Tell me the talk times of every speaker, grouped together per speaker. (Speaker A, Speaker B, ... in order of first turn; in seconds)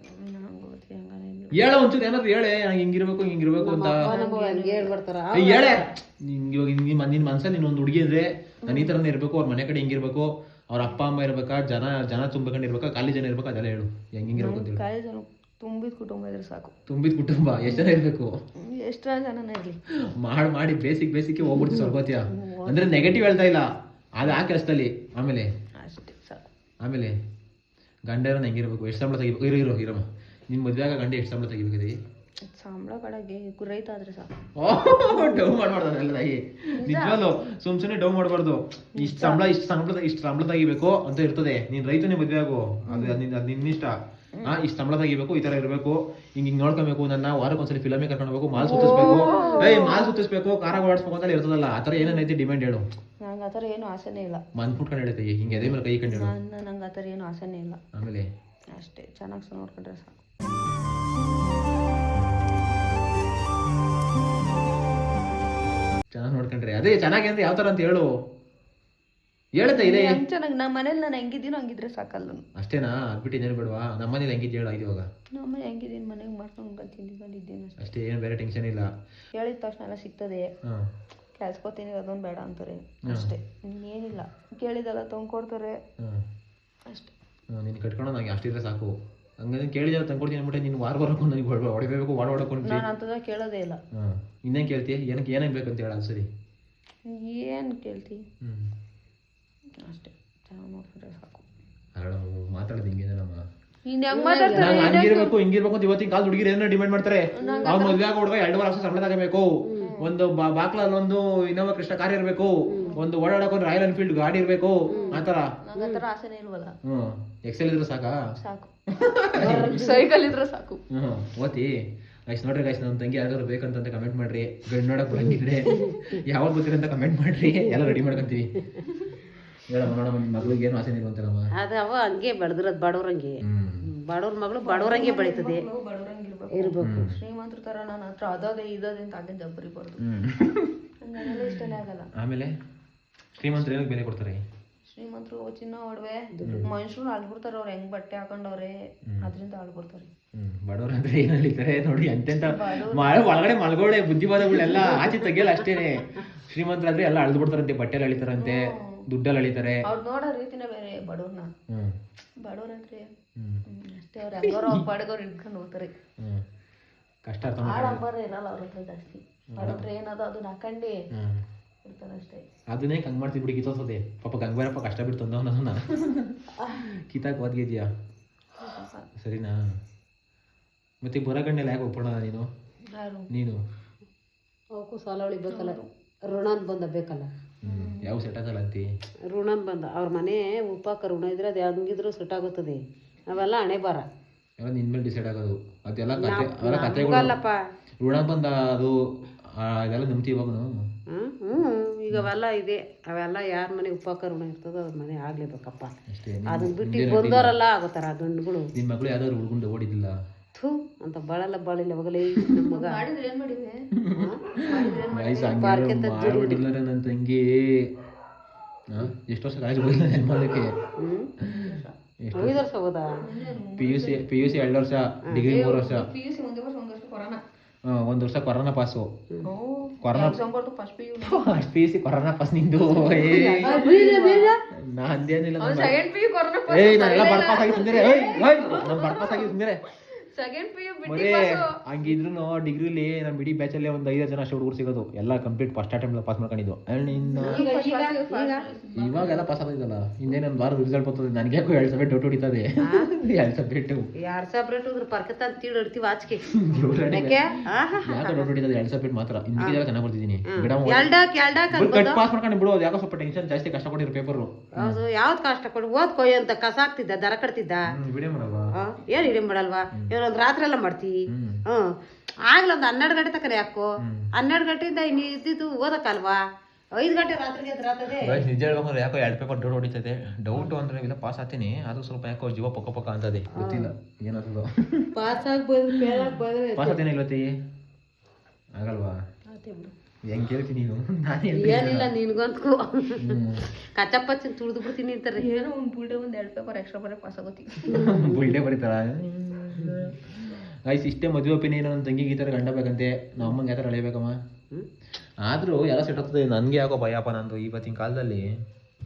Speaker A: 0.2-1.6, 4.0-4.9, 8.6-8.9, 14.3-16.7, 17.6-17.9, 18.7-19.8, 22.3-23.1, 25.8-26.4, 32.5-35.4, 36.8-37.2, 39.0-39.5, 42.9-43.2, 48.6-50.1, 53.2-54.4, 56.1-57.8, 58.8-60.2, 69.7-72.4, 75.4-77.8, 79.4-80.5, 81.4-85.8, 86.9-87.1, 92.6-93.8, 97.1-98.2, 99.9-101.4, 103.9-105.3, 107.3-108.0, 109.8-110.1, 112.8-113.1, 115.1-116.8, 118.4-118.7, 119.5-120.8, 134.6-140.0, 141.0-142.1, 144.9-150.1, 152.4-153.2, 158.4-158.8, 159.9-161.5, 162.4-163.1, 163.7-165.9, 167.6-170.9, 171.8-172.4, 178.6-179.1, 182.9-183.3, 185.5-185.9, 187.7-188.1, 212.7-213.8, 214.7-215.7, 221.5-221.9, 223.2-224.7, 225.4-227.4, 229.4-231.5, 232.9-234.5, 235.6-239.5, 240.3-241.7, 247.1-249.5, 289.5-289.9, 295.3-298.1
Speaker B: 1.5-4.1, 5.3-14.8, 16.9-18.3, 20.2-25.5, 26.8-27.1, 28.1-31.9, 34.6-43.9, 44.4-52.8, 54.5-56.3, 58.0-58.3, 66.1-68.1, 69.6-70.2, 72.6-75.0, 77.8-78.9, 83.1-83.3, 87.5-92.8, 94.0-96.3, 98.4-98.7, 102.0-103.4, 104.5-109.5, 110.0-115.5, 116.9-118.2, 119.0-119.7, 120.9-121.7, 122.3-128.5, 129.7-131.4, 133.4-133.8, 136.8-137.2, 140.0-140.7, 142.2-142.5, 143.4-144.4, 150.4-159.8, 163.4-163.6, 164.4-164.8, 167.3-168.0, 169.6-169.8, 171.1-171.4, 172.7-177.9, 179.2-179.6, 181.0-182.5, 183.3-183.6, 187.6-188.9, 194.6-197.3, 198.0-198.9, 199.6-200.7, 206.1-207.5, 208.8-210.1, 214.0-217.9, 218.9-220.7, 222.2-222.6, 223.8-226.1, 227.9-229.1, 230.0-230.4, 231.2-233.7, 234.9-235.9, 236.7-239.8, 241.1-247.6, 248.9-254.0, 256.4-257.4, 258.0-261.1, 261.7-265.0, 267.9-268.6, 271.3-271.6, 274.0-274.3, 278.2-285.1, 286.8-287.5, 288.8-289.1, 290.3-292.1, 293.2-293.6, 297.9-304.3, 305.4-308.5
Speaker C: 3.6-5.9, 21.5-21.9, 48.7-49.7, 104.1-105.0, 107.4-107.8, 112.7-112.9, 114.9-115.2, 115.8-116.0, 119.4-120.0, 125.2-126.0, 127.8-128.1, 131.6-135.6, 136.6-137.1, 146.3-146.7, 184.8-187.3, 189.3-194.1, 196.2-197.5, 201.1-205.9, 206.5-208.7, 210.6-213.0, 215.5-216.6, 221.0-221.8, 222.3-223.1, 233.2-234.6, 247.4-248.6, 254.2-256.4, 257.1-258.5, 260.5-262.2, 264.8-267.9, 268.8-271.2, 272.5-273.9, 274.4-276.4, 277.0-278.5, 283.6-283.9, 285.1-287.0, 291.5-292.8, 293.9-295.4, 297.9-298.6